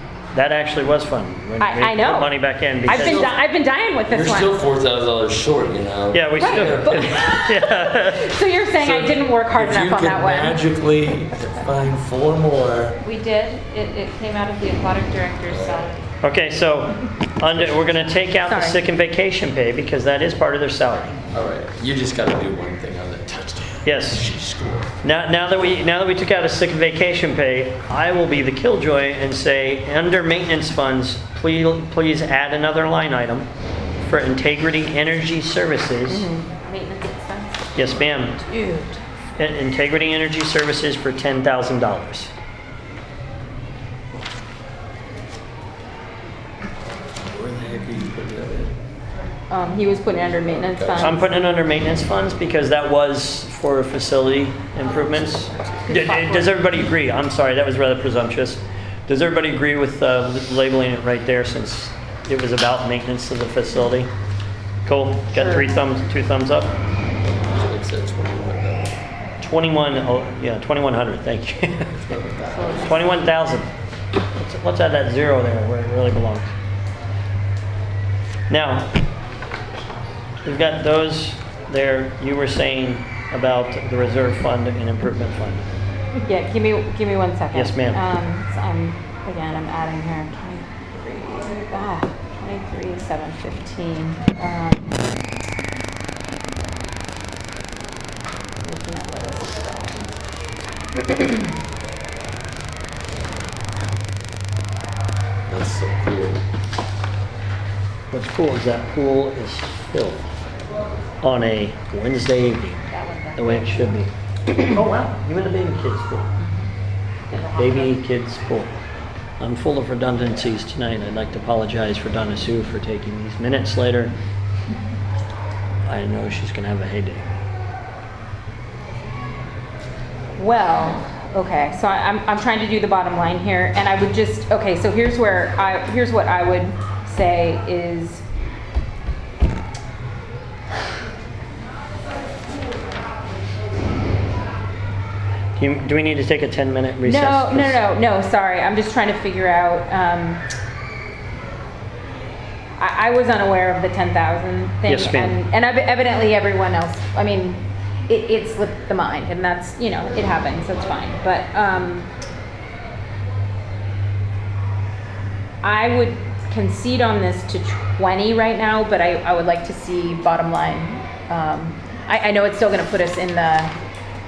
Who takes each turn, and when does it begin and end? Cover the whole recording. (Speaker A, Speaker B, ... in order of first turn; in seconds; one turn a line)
Speaker A: 0.3-3.3
Speaker B: 1.6-4.6
Speaker C: 2.9-3.4
Speaker C: 4.1-7.1
Speaker A: 6.1-9.1
Speaker B: 6.4-10.6
Speaker C: 9.5-13.0
Speaker D: 13.0-16.0
Speaker C: 15.5-15.9
Speaker A: 16.2-21.2
Speaker B: 18.4-18.8
Speaker C: 21.3-24.9
Speaker A: 23.9-24.2
Speaker A: 25.0-33.5
Speaker A: 34.0-36.3
Speaker B: 36.1-36.5
Speaker D: 36.6-38.9
Speaker A: 37.8-38.4
Speaker A: 39.4-42.3
Speaker C: 47.2-48.8
Speaker B: 49.5-51.2
Speaker C: 50.5-51.2
Speaker A: 51.0-64.1
Speaker A: 64.9-66.8
Speaker B: 65.4-65.7
Speaker C: 67.2-69.0
Speaker A: 69.4-72.0
Speaker C: 72.0-73.0
Speaker D: 72.5-73.1
Speaker A: 72.8-73.7
Speaker A: 74.3-76.5
Speaker A: 78.5-79.0
Speaker A: 80.4-85.7
Speaker B: 86.2-95.1
Speaker A: 87.5-88.0
Speaker B: 98.6-100.1
Speaker B: 101.0-101.4
Speaker C: 105.5-106.4
Speaker A: 108.1-110.3
Speaker A: 111.2-116.3
Speaker D: 112.9-114.0
Speaker D: 117.3-118.0
Speaker A: 117.5-118.7
Speaker A: 119.4-124.1
Speaker A: 125.8-127.3
Speaker B: 130.4-138.2
Speaker A: 145.6-147.8
Speaker B: 147.0-150.4
Speaker B: 152.8-162.1
Speaker A: 154.9-155.4
Speaker B: 165.6-173.7